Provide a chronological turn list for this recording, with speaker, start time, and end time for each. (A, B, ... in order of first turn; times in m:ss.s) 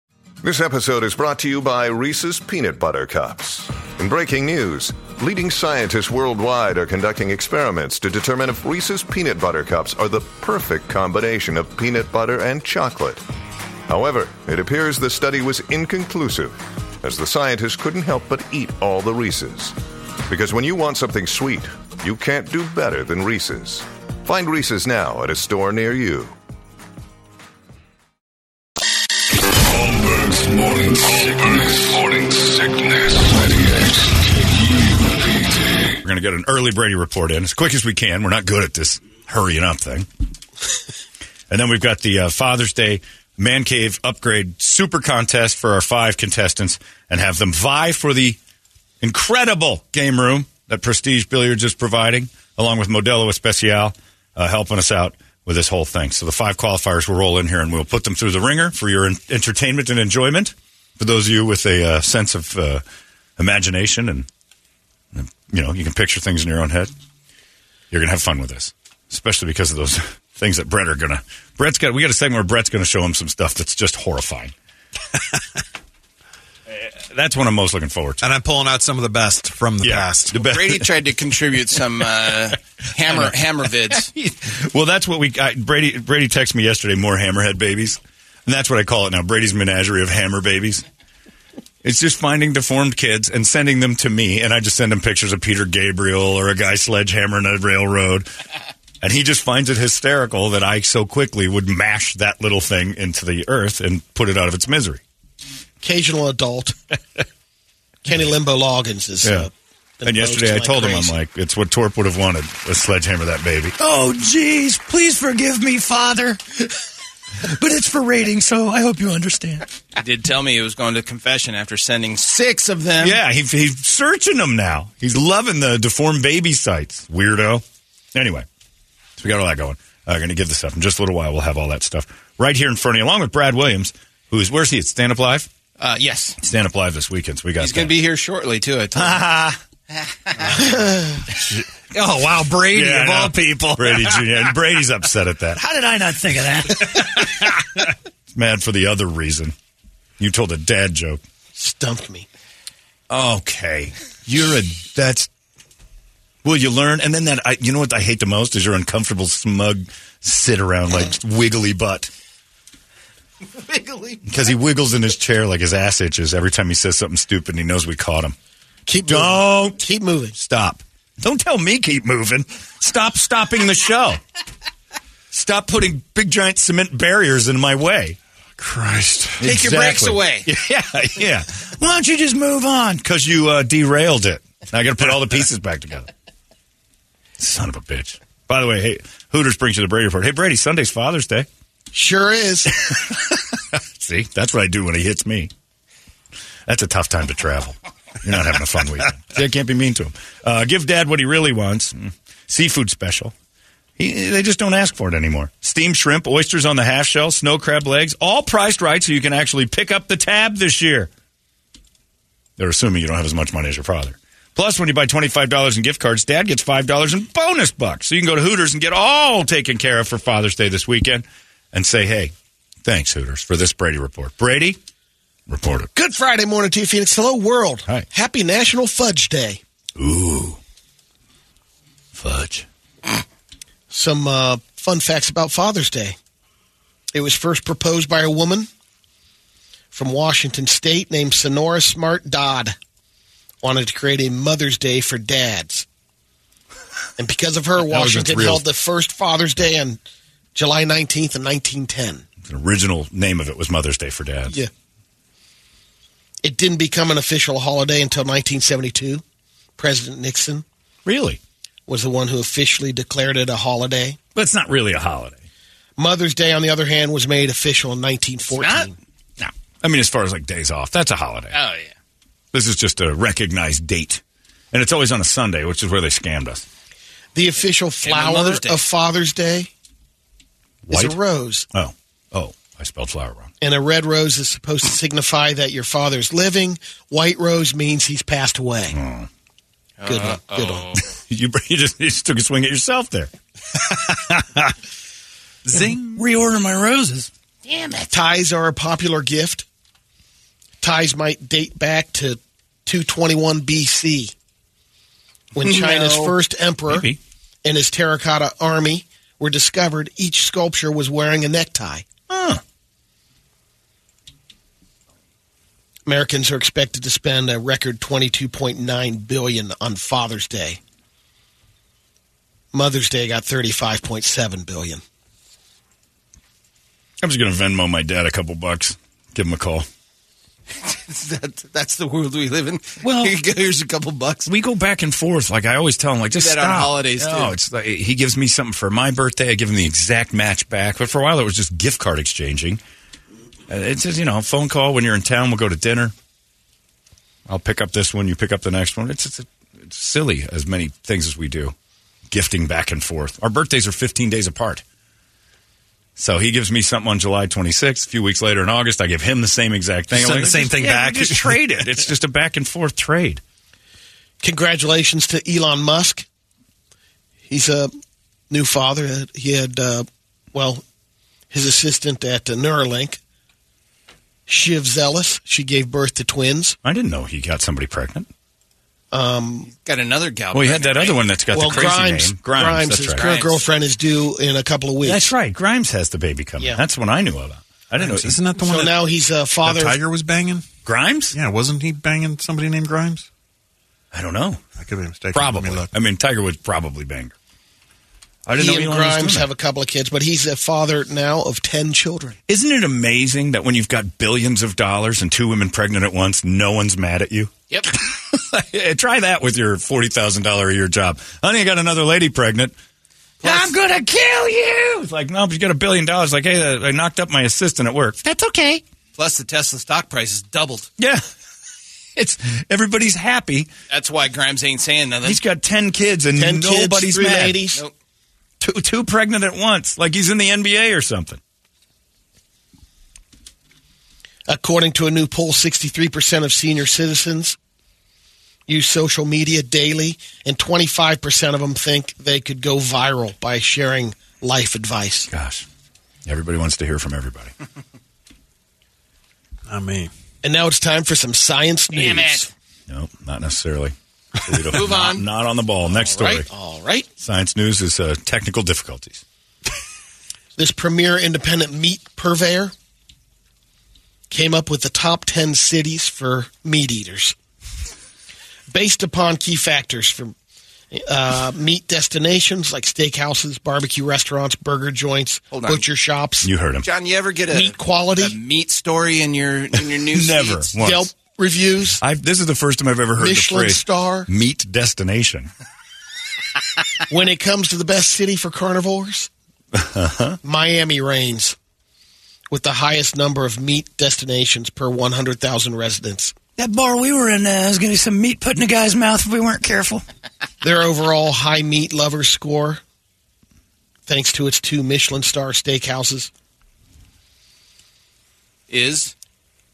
0:00.4-0:13.2 A
0:13.9-0:19.7 A
0:20.3-0:26.3 A
0:29.5-0:36.0 B
0:36.0-0:40.1 C
0:41.5-0:48.4 C
0:49.0-1:02.8 C
1:03.4-1:04.3 C
1:05.1-1:06.9 C
1:07.9-1:14.5 C
1:16.7-1:18.3 C
1:18.2-1:20.3 D
1:19.8-1:20.8 C
1:20.3-1:24.1 E
1:24.1-1:30.8 C
1:31.8-1:38.3 C
1:39.0-1:45.0 C
1:45.8-1:46.7 F
1:48.0-1:49.5 F
1:49.2-1:49.5 C
1:50.0-1:51.2 F
1:50.0-1:53.8 C
1:53.8-1:56.7 G
1:57.5-1:59.6 G
2:00.0-2:03.2 E
2:03.0-2:08.4 C
2:09.2-2:15.5 C
2:15.8-2:16.4 E
2:16.4-2:17.9 C
2:17.6-2:19.3 E
2:18.9-2:19.6 C
2:20.1-2:20.7 E
2:20.8-2:21.1 F
2:22.2-2:23.9 D
2:22.7-2:25.6 C
2:25.6-2:27.5 G
2:28.3-2:29.5 C
2:30.2-2:31.2 C
2:31.6-2:32.3 F
2:33.1-2:35.3 C
2:36.4-2:42.1 C
2:43.5-2:44.2 E
2:44.2-2:48.3 C
2:48.9-2:50.4 F
2:49.1-2:49.8 C
2:50.4-2:54.2 C
2:55.3-2:58.2 C
2:58.6-2:59.4 D
2:59.4-3:06.1 C
2:59.4-3:00.5 E
3:07.4-3:11.5 C
3:11.9-3:12.8 F
3:13.7-3:15.5 C
3:16.7-3:23.3 C
3:24.0-3:31.1 C
3:32.6-3:42.3 C
3:42.8-3:44.8 C
3:45.5-3:45.9 C
3:45.9-3:49.6 F
3:50.0-3:50.6 C
3:52.1-3:52.6 C
3:53.9-3:56.2 F
3:57.1-3:58.7 F
3:59.9-4:02.7 F
4:03.6-4:05.8 F
4:07.2-4:10.0 F
4:07.8-4:08.6 C
4:10.5-4:12.2 F
4:12.4-4:14.6 C
4:16.4-4:19.2 F
4:19.8-4:20.6 F
4:21.0-4:21.4 C
4:21.9-4:24.2 F
4:24.3-4:25.4 C
4:26.0-4:28.9 F
4:28.5-4:31.6 C
4:31.5-4:31.9 E
4:32.5-4:34.2 C
4:34.7-4:36.6 C
4:37.3-4:39.7 F
4:38.0-4:38.8 E
4:40.9-4:41.2 C
4:40.9-4:41.7 F
4:41.7-4:43.5 C
4:43.6-4:48.9 F
4:48.9-4:49.3 C
4:50.0-4:51.0 E
4:50.0-4:51.0 F
4:51.2-4:54.7 C
4:55.7-4:56.1 D
4:55.7-4:58.1 G
4:58.1-4:59.6 F
5:00.8-5:04.3 F
5:05.5-5:07.1 F
5:05.6-5:06.3 E
5:06.9-5:07.2 C
5:07.6-5:12.0 F
5:12.3-5:12.6 C
5:16.0-5:20.8 F
5:22.7-5:25.0 F
5:27.2-5:29.9 C
5:30.8-5:34.5 E
5:33.0-5:33.3 C
5:34.4-5:42.8 C
5:36.3-5:37.5 E
5:43.7-5:46.1 C
5:47.5-5:51.7 C
5:52.3-5:54.8 C
5:56.2-6:03.4 C
6:00.1-6:01.9 D
6:04.4-6:06.2 F
6:07.5-6:07.9 F
6:08.5-6:10.8 F
6:11.5-6:13.2 F
6:14.5-6:16.8 F
6:16.8-6:18.3 C
6:19.1-6:19.7 F
6:19.7-6:22.0 E
6:20.5-6:23.2 C
6:21.5-6:25.3 F
6:23.1-6:23.7 E
6:25.0-6:28.4 C
6:28.0-6:29.0 D
6:28.6-6:30.0 F
6:29.6-6:30.6 D
6:30.8-6:31.4 C
6:31.3-6:33.3 D
6:34.1-6:34.6 C
6:34.8-6:35.9 D
6:35.3-6:37.3 C
6:38.4-6:39.5 C
6:38.6-6:42.4 F
6:42.5-6:52.7 C
6:53.4-6:55.0 G
6:53.4-6:53.7 C
6:53.4-6:53.7 E
6:54.9-6:58.2 C
6:58.2-6:58.8 G
6:59.1-7:00.9 E
7:02.2-7:03.7 C
7:03.9-7:05.4 E
7:05.2-7:07.6 C
7:06.4-7:07.8 F
7:08.6-7:11.4 C
7:14.5-7:17.6 F
7:18.7-7:25.3 F
7:25.3-7:25.6 C
7:26.2-7:27.5 C
7:29.7-7:30.1 D
7:30.4-7:32.5 F
7:31.9-7:32.4 E
7:32.9-7:36.5 C
7:34.7-7:35.2 E
7:35.9-7:37.1 F
7:37.2-7:39.2 C
7:40.6-7:42.7 F
7:44.3-7:47.3 F
7:48.7-7:50.3 F
7:50.9-7:56.5 F
7:55.5-7:55.8 E
7:56.4-7:56.9 C
7:56.8-8:00.7 E
7:57.5-7:58.3 F
8:00.1-8:01.1 C
8:00.8-8:02.0 F
8:02.0-8:05.5 C
8:03.2-8:04.3 F
8:07.1-8:09.3 F
8:09.7-8:10.4 C
8:10.4-8:11.6 F
8:12.5-8:16.3 F
8:16.6-8:20.0 G
8:20.6-8:22.8 F
8:24.1-8:26.3 F
8:28.7-8:29.1 E